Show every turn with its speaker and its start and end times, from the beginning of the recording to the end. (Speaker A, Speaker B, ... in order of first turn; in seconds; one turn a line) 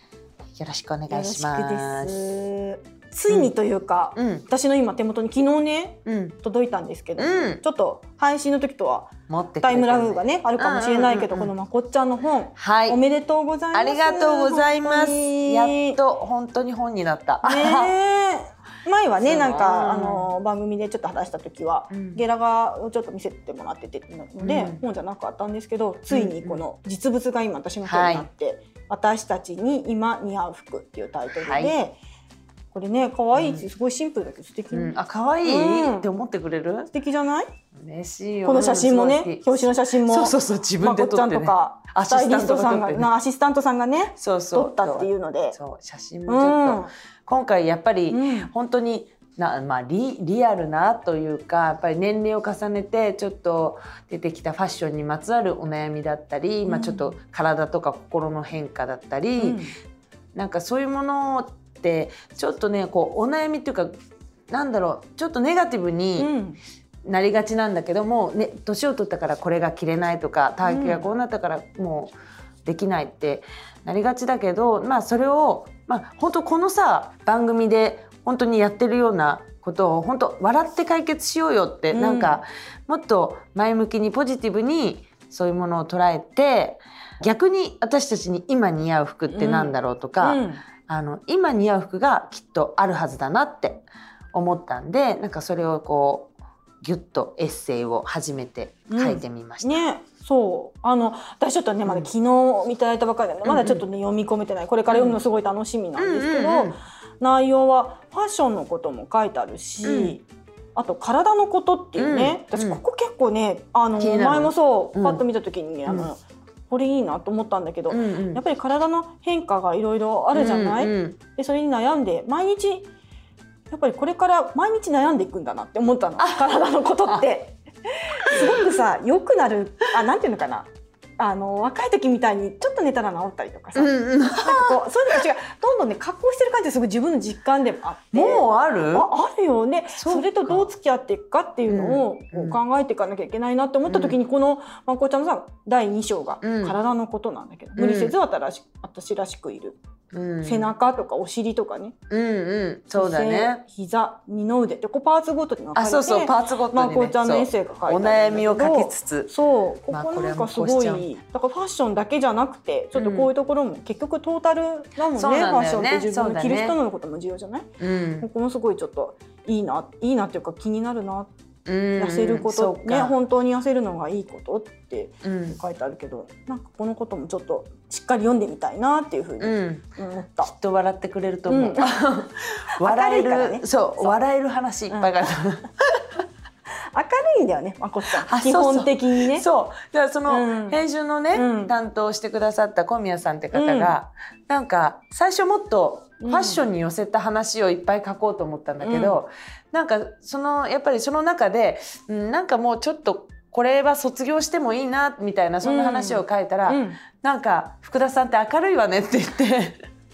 Speaker A: 0.6-2.2
Speaker B: 1.1-16.0
Speaker A: 4.2-4.5
Speaker A: 6.0-6.4
Speaker A: 7.2-7.6
Speaker A: 9.3-11.5
Speaker A: 12.6-13.0
Speaker A: 13.7-17.9
Speaker B: 17.4-32.0
Speaker A: 19.2-20.3
Speaker A: 21.9-22.2
Speaker A: 24.4-24.8
Speaker A: 26.1-26.6
Speaker A: 27.8-28.3
Speaker A: 31.3-31.7
Speaker B: 32.7-36.1
Speaker A: 33.3-33.7
Speaker A: 34.7-36.9
Speaker B: 36.9-37.5
Speaker A: 37.8-43.1
Speaker B: 38.5-45.6
Speaker A: 44.2-59.6
Speaker B: 46.3-46.9
Speaker B: 48.1-48.5
Speaker B: 56.6-57.1
Speaker B: 59.4-59.7
Speaker A: 60.4-63.9
Speaker A: 64.5-66.3
Speaker B: 66.2-66.6
Speaker A: 67.1-72.1
Speaker B: 70.7-71.1
Speaker A: 72.7-99.8
Speaker B: 81.9-82.4
Speaker B: 89.3-90.6
Speaker B: 98.9-110.2
Speaker A: 103.4-103.8
Speaker A: 104.9-105.2
Speaker A: 106.0-106.8
Speaker A: 109.8-110.2
Speaker B: 110.8-122.9
Speaker A: 112.0-112.8
Speaker A: 114.0-115.2
Speaker A: 117.9-118.4
Speaker A: 120.3-121.2
Speaker B: 123.7-130.7
Speaker A: 126.2-126.5
Speaker A: 128.3-128.6
Speaker B: 131.2-149.8
Speaker A: 133.8-134.8
Speaker A: 138.1-139.1
Speaker A: 140.0-140.7
Speaker A: 141.7-142.6
Speaker A: 143.9-144.2
Speaker A: 146.4-146.8
Speaker A: 147.8-148.1
Speaker A: 150.1-150.7
Speaker B: 150.4-151.9
Speaker A: 152.1-153.6
Speaker B: 152.9-167.7
Speaker A: 155.8-159.3
Speaker A: 159.9-161.1
Speaker A: 162.9-163.3
Speaker A: 165.1-166.8
Speaker A: 167.8-168.3
Speaker B: 168.2-171.3
Speaker A: 171.7-173.1
Speaker B: 171.9-180.5
Speaker A: 175.2-175.6
Speaker A: 179.4-179.8
Speaker A: 180.4-186.1
Speaker B: 181.5-182.0
Speaker B: 182.8-184.2
Speaker B: 186.9-189.4
Speaker A: 188.1-209.8
Speaker B: 190.3-190.8
Speaker B: 191.3-191.7
Speaker B: 193.5-193.9
Speaker B: 196.2-196.6
Speaker B: 198.8-199.2
Speaker B: 205.6-207.0